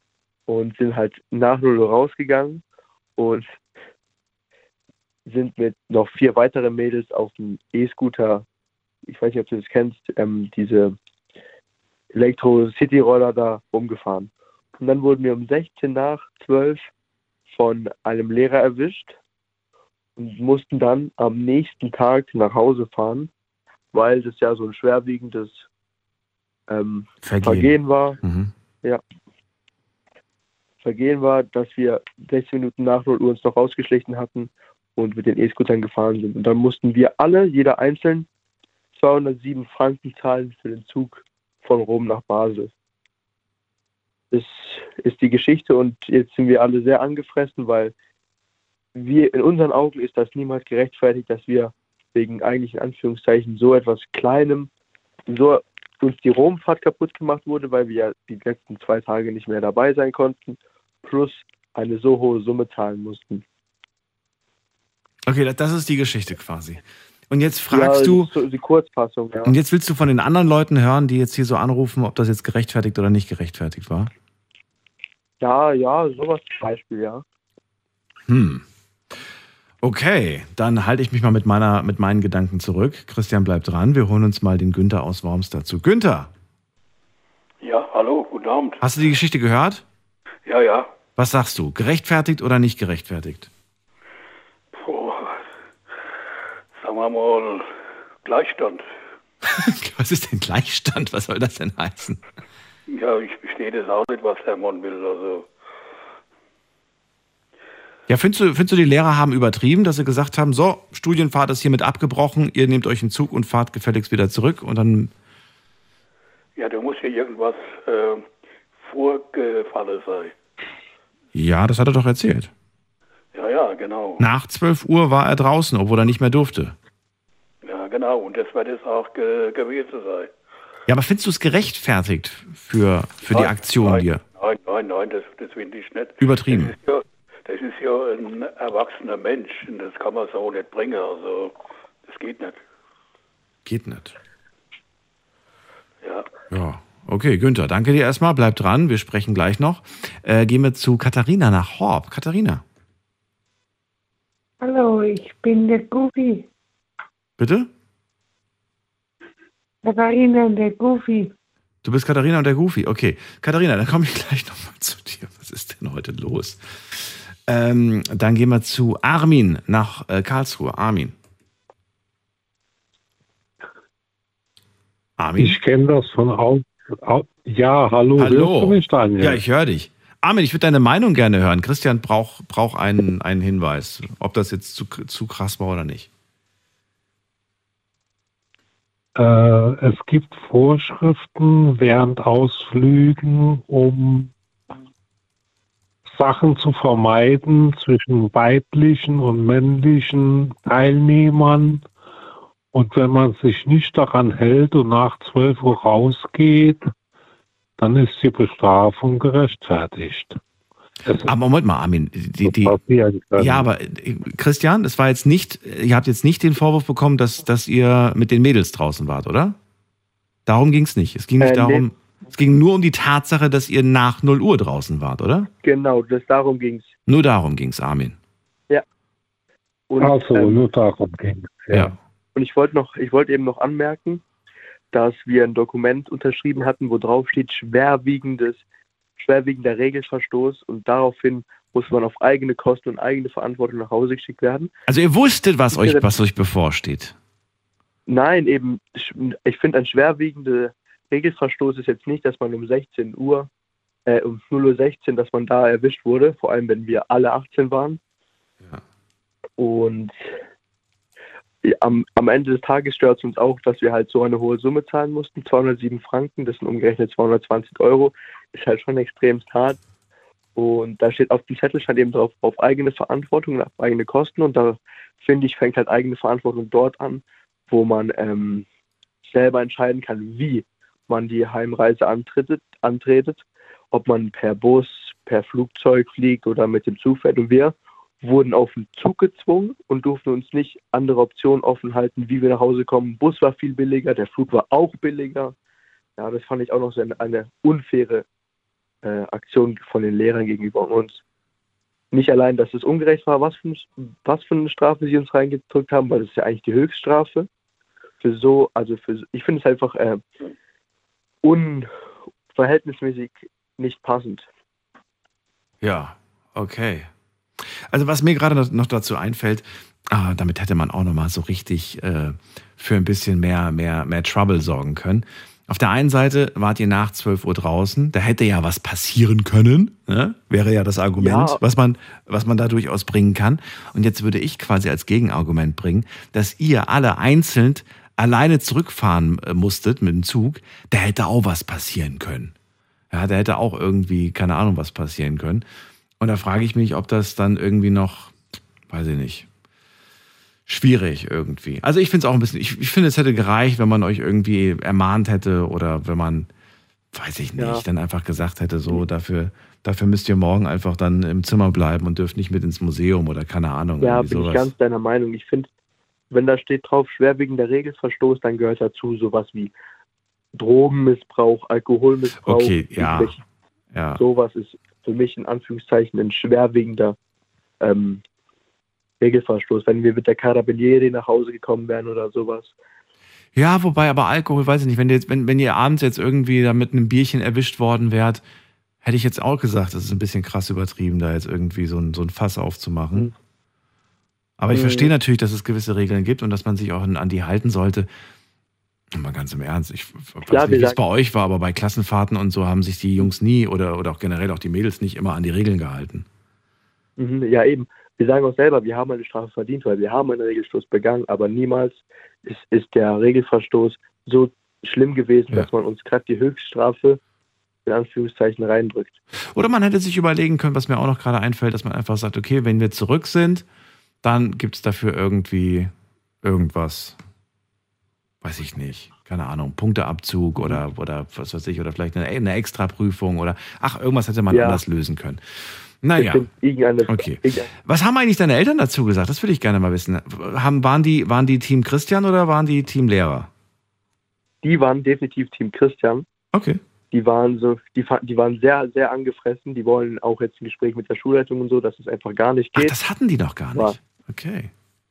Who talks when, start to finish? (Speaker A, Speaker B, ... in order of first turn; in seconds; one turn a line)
Speaker A: 0.5-2.6
Speaker A: 3.2-3.5
Speaker A: 5.3-8.4
Speaker A: 9.1-11.0
Speaker A: 12.1-16.8
Speaker A: 17.5-19.2
Speaker A: 20.2-23.3
Speaker A: 23.9-25.7
Speaker A: 26.7-28.2
Speaker B: 27.2-27.7
Speaker B: 28.2-28.5
Speaker A: 30.8-38.3
Speaker A: 39.0-42.7
Speaker A: 44.3-47.9
Speaker A: 49.0-54.7
Speaker A: 55.3-63.4
Speaker B: 65.3-68.3
Speaker A: 67.7-69.6
Speaker B: 69.5-74.1
Speaker A: 75.4-77.2
Speaker B: 78.3-78.7
Speaker B: 79.8-86.3
Speaker C: 87.6-88.8
Speaker B: 88.8-89.8
Speaker C: 90.5-90.9
Speaker B: 91.2-93.5
Speaker C: 94.7-95.4
Speaker C: 96.7-97.7
Speaker C: 98.2-98.8
Speaker B: 99.5-102.2
Speaker C: 102.9-105.5
Speaker B: 108.1-115.1
Speaker C: 116.6-118.3
Speaker C: 118.8-120.3
Speaker B: 121.3-122.5
Speaker C: 123.3-124.2
Speaker B: 124.2-126.8
Speaker C: 127.6-130.3
Speaker B: 130.9-134.2
Speaker C: 133.3-141.5
Speaker B: 136.2-136.8
Speaker C: 142.1-142.6
Speaker B: 143.7-144.2
Speaker C: 146.0-146.3
Speaker B: 146.5-152.6
Speaker D: 154.6-156.5
Speaker B: 157.4-157.7
Speaker D: 159.8-161.3
Speaker B: 161.8-171.2
Speaker B: 175.2-175.6
Speaker E: 175.4-179.4
Speaker B: 178.2-186.1
Speaker E: 189.2-194.3
Speaker E: 196.1-201.8
Speaker E: 202.7-206.8
Speaker E: 207.8-210.4
Speaker E: 211.1-211.3
Speaker B: 211.3-212.8
Speaker E: 212.4-213.7
Speaker B: 213.4-219.6
Speaker B: 220.5-225.5
Speaker A: 221.4-221.9
Speaker A: 225.6-226.9
Speaker B: 227.1-228.2
Speaker A: 229.9-230.7
Speaker E: 230.0-232.0
Speaker A: 232.3-234.2
Speaker A: 234.9-238.6
Speaker A: 239.2-244.7
Speaker B: 244.9-247.2
Speaker A: 245.7-246.1
Speaker A: 248.1-253.5
Speaker A: 254.1-258.0
Speaker A: 259.6-260.1
Speaker A: 261.6-269.8
Speaker A: 270.6-278.6
Speaker A: 279.3-295.5
Speaker A: 296.2-298.2
Speaker A: 299.0-301.2
Speaker A: 302.1-307.5
Speaker A: 308.2-310.2
Speaker A: 311.4-311.9
Speaker A: 312.6-314.5
Speaker B: 315.8-342.5
Speaker A: 331.2-331.6
Speaker B: 343.1-345.7
Speaker B: 346.2-348.4
Speaker B: 348.9-349.5
Speaker B: 350.7-356.5
Speaker B: 357.1-364.7
Speaker A: 357.6-357.8
Speaker A: 364.0-365.7
Speaker A: 366.3-369.7
Speaker A: 370.5-373.4
Speaker B: 372.4-373.3
Speaker B: 373.9-374.2
Speaker A: 374.2-377.2
Speaker A: 377.8-378.2
Speaker A: 379.2-382.7
Speaker B: 383.6-388.4
Speaker B: 389.0-393.3
Speaker B: 394.6-398.1
Speaker A: 394.7-395.1
Speaker B: 399.1-406.3
Speaker A: 400.5-401.0
Speaker A: 407.2-417.2
Speaker A: 417.9-419.2
Speaker B: 419.4-423.7
Speaker B: 424.2-425.9
Speaker B: 426.4-427.2
Speaker B: 428.4-436.4
Speaker A: 430.6-430.8
Speaker A: 434.5-434.8
Speaker A: 436.2-437.7
Speaker B: 437.1-443.5
Speaker A: 444.6-446.3
Speaker B: 446.5-446.8
Speaker A: 447.1-452.9
Speaker B: 452.8-454.7